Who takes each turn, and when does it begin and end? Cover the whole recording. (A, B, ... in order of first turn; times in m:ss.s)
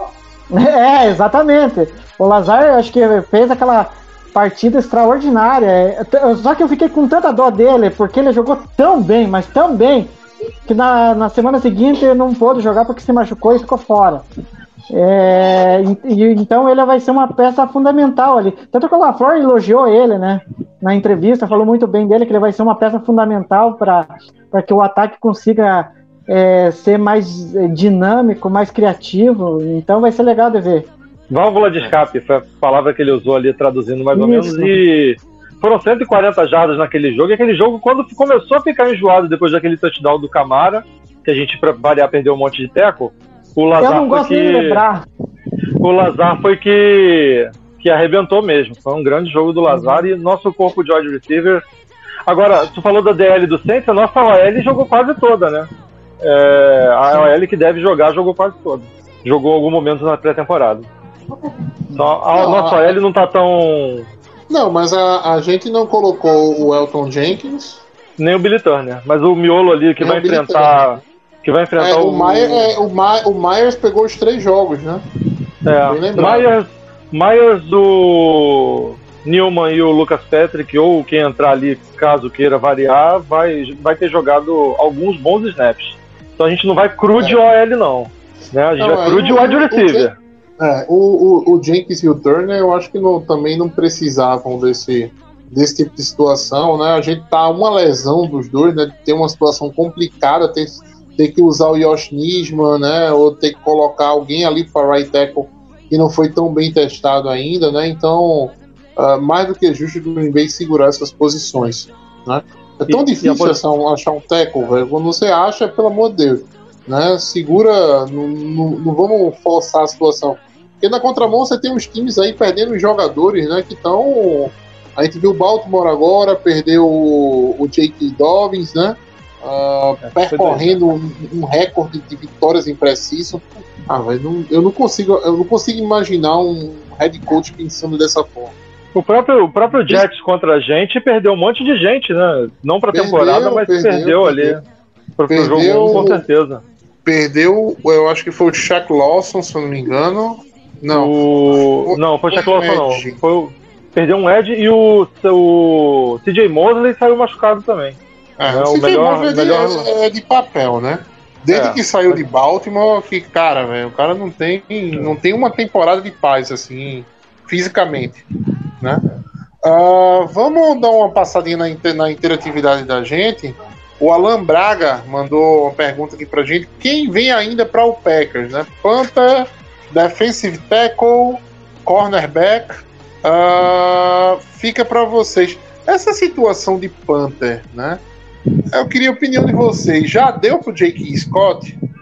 0:00.5-0:10.2 A
0:10.7-0:14.2 A
0:14.9-0:30.9 A
0:31.3-0:44.8 B
0:34.1-0:34.8 A
0:43.8-0:45.0 A
0:45.8-0:51.6 B
0:49.8-0:50.0 A
0:52.3-0:55.7 B
0:56.2-1:00.9 B
1:01.9-1:04.1 B
1:01.9-1:03.0 C
1:04.5-1:07.8 C
1:08.2-1:12.7 B
1:10.0-1:11.0 C
1:11.8-1:15.0 C
1:15.7-1:30.2 B
1:15.8-1:16.5 C
1:28.8-1:30.1 C
1:30.6-2:18.6 C
1:52.9-1:53.6 B
2:10.0-2:10.8 B
2:19.0-2:24.6 B
2:19.7-2:20.1 C
2:22.9-2:24.6 C
2:25.2-2:26.6 B
2:25.3-2:26.3 C
2:27.0-2:31.1 C
2:30.9-2:39.9 B
2:31.8-2:33.2 C
2:38.4-2:48.2 C
2:41.5-2:42.2 B
2:49.6-3:08.0 C
3:08.7-3:11.8 C